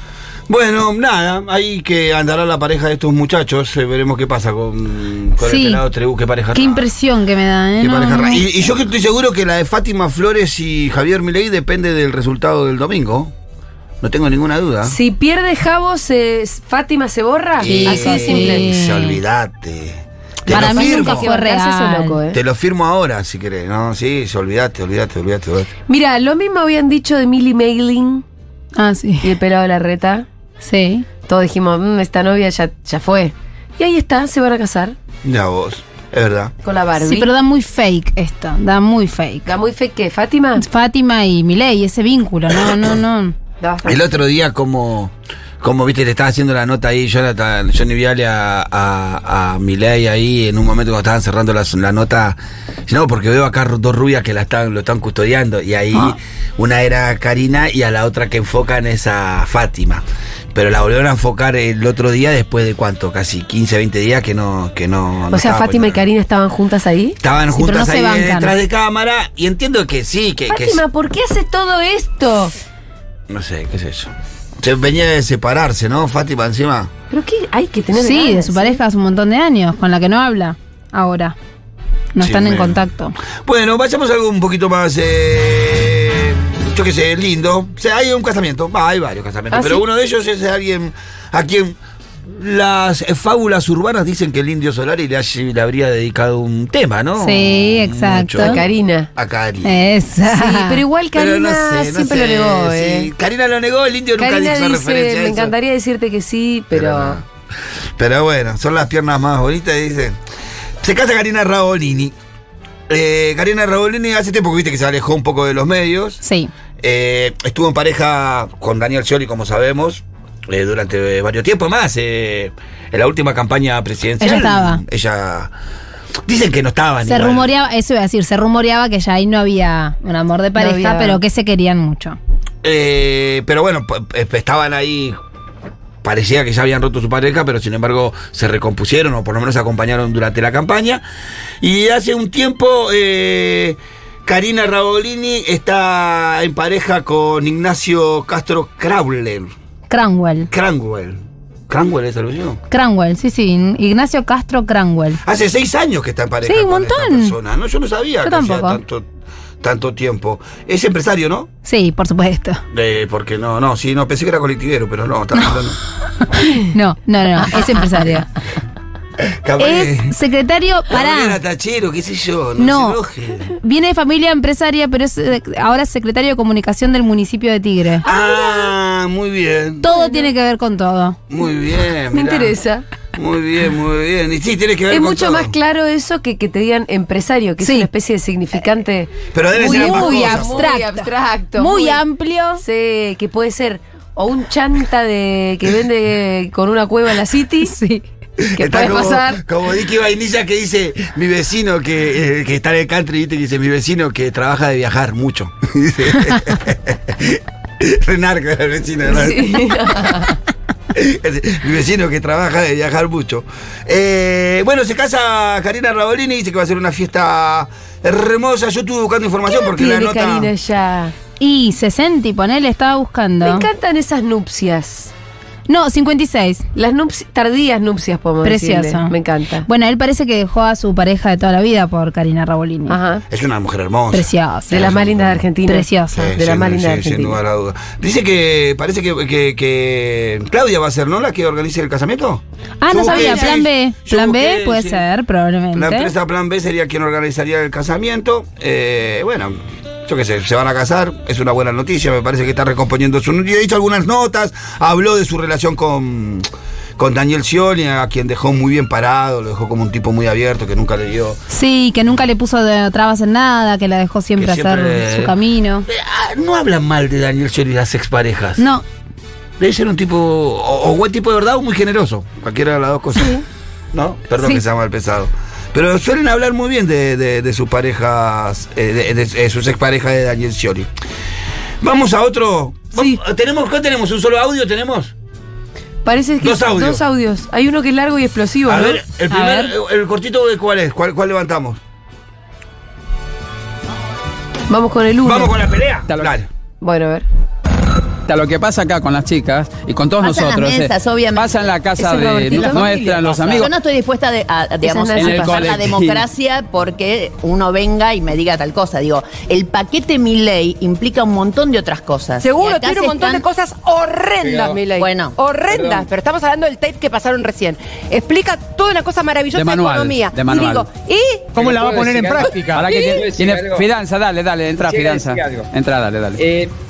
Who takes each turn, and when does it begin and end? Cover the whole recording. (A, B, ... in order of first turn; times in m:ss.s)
0:00.5-0:06.9 A
0:05.4-0:05.8 B
0:06.5-0:08.5 B
0:07.8-0:13.3 A
0:14.0-0:15.0 A
0:14.8-0:18.7 C
0:17.6-0:21.3 A
0:17.6-0:19.2 B
0:20.5-0:22.4 C
0:20.5-0:22.2 B
0:22.3-0:25.7 A
0:25.9-0:28.2 C
0:28.8-0:29.4 B
0:29.2-0:30.3 C
0:30.6-0:31.1 B
0:31.2-0:35.0 C
0:35.2-0:36.5 A
0:36.6-0:37.3 C
0:37.0-0:39.5 B
0:39.5-0:40.6 C
0:40.6-0:43.4 B
0:42.5-0:43.0 A
0:43.6-0:44.0 C
0:43.8-1:06.0 A
1:05.3-1:07.2 C
1:07.2-1:10.8 A
1:07.5-1:08.5 B
1:10.5-1:12.5 C
1:13.3-1:16.9 A
1:17.1-1:18.8 C
1:17.9-1:21.4 B
1:22.1-1:23.2 B
1:22.2-1:22.8 A
1:23.4-1:31.8 A
1:29.5-1:29.8 C
1:32.3-1:39.8 A
1:37.2-1:38.6 B
1:38.4-1:39.1 C
1:39.6-1:40.8 B
1:40.3-1:43.1 C
1:41.1-1:45.5 A
1:44.2-1:47.2 C
1:46.7-1:47.3 A
1:48.0-1:50.2 A
1:50.8-1:52.2 A
1:52.9-1:56.2 A
1:56.2-1:56.5 B
1:56.8-2:05.5 A
2:04.2-2:04.8 B
2:06.3-2:07.5 A
2:07.1-2:12.2 B
2:10.6-2:11.2 C
2:12.6-2:15.2 A
2:16.0-2:21.0 A
2:21.6-2:29.5 A
2:29.9-2:30.5 B
2:30.5-2:32.6 A
2:32.7-2:35.2 B
2:35.2-2:39.1 A
2:36.5-2:37.3 B
2:38.2-2:38.8 B
2:39.6-2:41.5 A
2:41.6-2:42.6 B
2:42.7-2:45.8 A
2:46.3-2:48.3 B
2:49.2-2:50.2 A
2:49.6-2:51.4 B
2:50.9-2:53.5 A
2:52.6-2:58.0 B
2:58.0-2:58.7 C
2:58.0-2:59.9 A
2:59.8-3:01.2 B
2:59.9-3:00.3 C
3:01.3-3:02.6 A
3:02.1-3:02.9 C
3:03.2-3:05.5 A
3:04.9-3:12.0 C
3:07.6-3:07.9 B
3:09.3-3:10.7 A
3:09.6-3:12.6 B
3:12.6-3:17.8 C
3:17.7-3:18.0 B
3:18.4-3:30.3 A
3:18.6-3:19.4 C
3:29.1-3:30.4 C
3:30.9-3:40.5 A
3:39.5-3:41.2 C
3:41.4-3:43.7 B
3:43.4-3:45.1 C
3:45.7-3:46.6 B
3:46.8-3:49.7 C
3:48.4-3:49.1 B
3:49.7-3:53.0 B
3:52.9-3:53.2 C
3:53.3-3:55.4 A
3:54.1-3:54.9 B
3:54.7-3:57.4 C
3:55.7-3:56.3 B
3:56.1-4:05.0 A
4:02.8-4:06.1 B
4:03.0-4:03.5 C
4:05.7-4:21.4 A
4:21.5-4:25.9 B
4:24.4-4:28.6 A
4:28.6-4:28.8 B
4:29.6-4:33.4 A
4:33.9-4:40.9 A
4:41.8-4:45.1 A
4:46.0-4:49.0 C
4:46.4-4:47.0 A
4:48.7-4:51.8 A
4:49.3-4:49.7 B
4:54.7-4:55.6 C
4:55.2-4:56.5 A
4:56.8-4:57.3 C
4:58.3-5:03.7 D
5:00.2-5:01.7 E
5:02.0-5:03.1 C
5:02.4-5:13.4 E
5:04.8-5:05.8 C
5:05.2-5:06.2 D
5:12.4-5:21.8 F
5:14.4-5:14.8 G
5:15.0-5:15.4 E
5:15.7-5:16.1 G
5:19.5-5:20.9 D
5:21.6-5:23.9 G
5:21.6-5:26.4 D
5:22.4-5:23.2 F
5:24.8-5:25.7 G
5:26.4-5:26.8 G